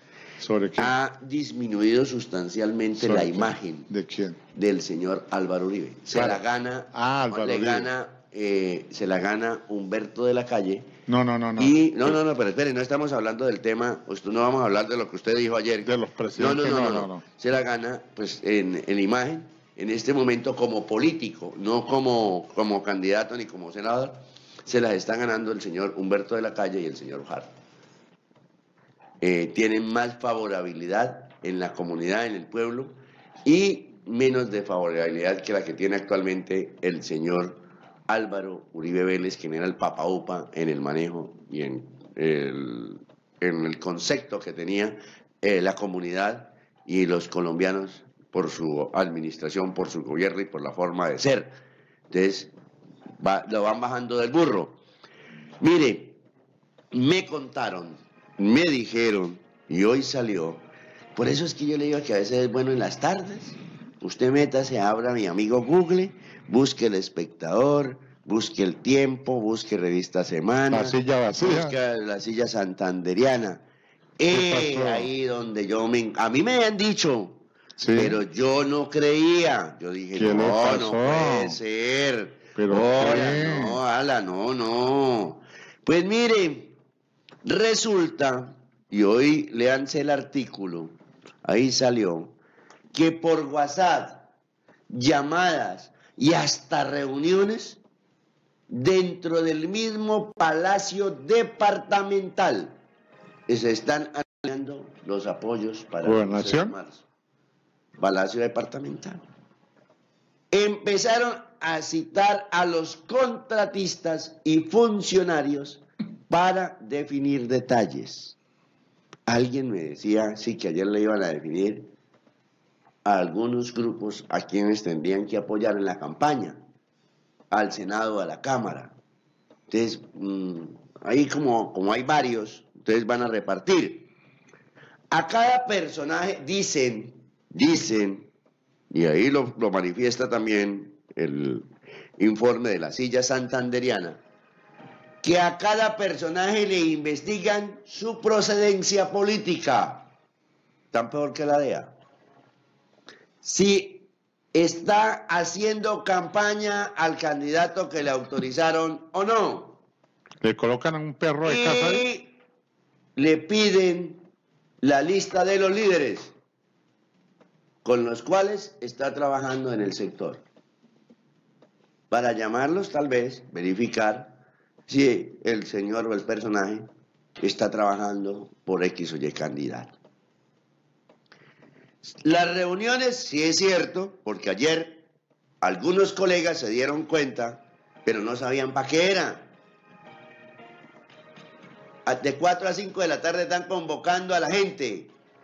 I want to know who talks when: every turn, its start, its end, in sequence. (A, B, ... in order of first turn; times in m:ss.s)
0:00.4-0:00.9 A
0:00.8-0:03.9 B
0:03.0-0:04.4 A
0:04.5-0:10.9 B
0:06.1-0:07.9 A
0:11.1-0:12.2 A
0:11.6-0:27.5 B
0:15.8-0:17.2 A
0:29.2-0:51.5 B
0:52.1-0:52.5 B
0:53.2-0:54.8 B
0:55.6-0:56.2 B
0:56.9-1:00.6 B
1:01.2-1:13.6 B
1:10.7-1:11.8 A
1:14.2-1:17.4 B
1:14.3-1:15.1 A
1:17.8-1:18.2 A
1:17.9-1:26.7 B
1:20.1-1:21.6 A
1:22.6-1:23.8 A
1:27.4-1:32.3 B
1:32.9-1:34.2 B
1:34.9-1:37.8 B
1:38.7-1:42.8 B
1:43.5-1:47.0 B
1:46.0-1:46.7 A
1:48.0-1:49.2 B
1:50.5-1:58.3 B
1:59.3-2:01.9 B
2:03.0-2:06.6 B
2:07.5-2:08.9 B
2:09.7-2:14.1 B
2:15.1-2:18.3 B
2:18.9-2:24.2 B
2:25.2-2:30.1 B
2:30.9-2:31.9 B
2:33.4-2:39.8 B
2:40.4-2:42.1 A
2:41.4-2:42.4 B
2:43.2-2:44.2 B
2:44.8-2:46.3 B
2:47.8-2:50.4 B
2:52.1-2:56.9 B
2:57.4-2:59.9 B
3:02.2-3:05.0 B
3:05.6-3:09.5 B
3:12.0-3:15.1 B